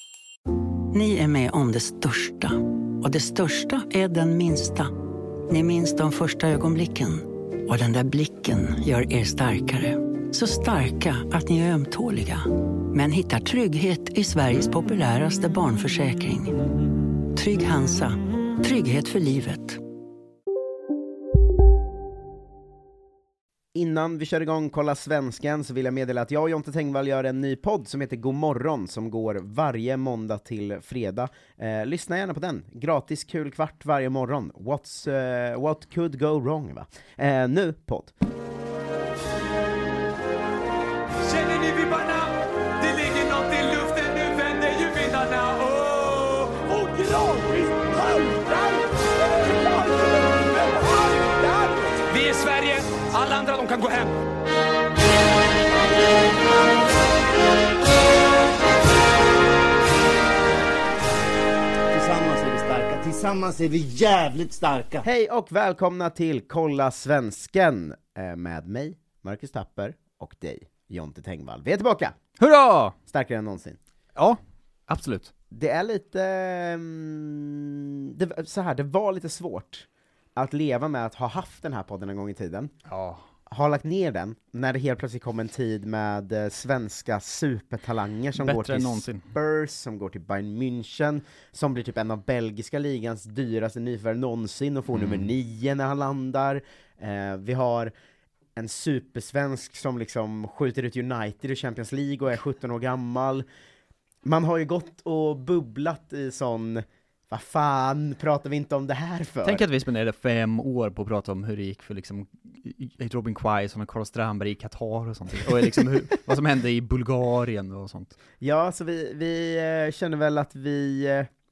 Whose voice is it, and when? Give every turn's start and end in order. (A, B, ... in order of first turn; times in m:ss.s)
0:00.9-0:04.9 A
0:05.5-0:16.6 A
0:17.3-0:19.8 A
0:23.7-0:38.2 B
0:41.2-0:54.2 C
1:01.9-1:05.0 D
1:05.0-1:12.2 B
1:12.4-1:13.0 E
1:13.1-1:13.8 B
1:14.2-1:15.3 E
1:15.5-1:22.7 B
1:22.9-1:23.3 E
1:23.5-1:37.9 B
1:28.4-1:29.3 E
1:34.9-1:35.3 E
1:38.6-1:43.5 B
1:44.2-1:49.6 B
1:49.4-1:58.2 E
1:58.4-2:01.3 B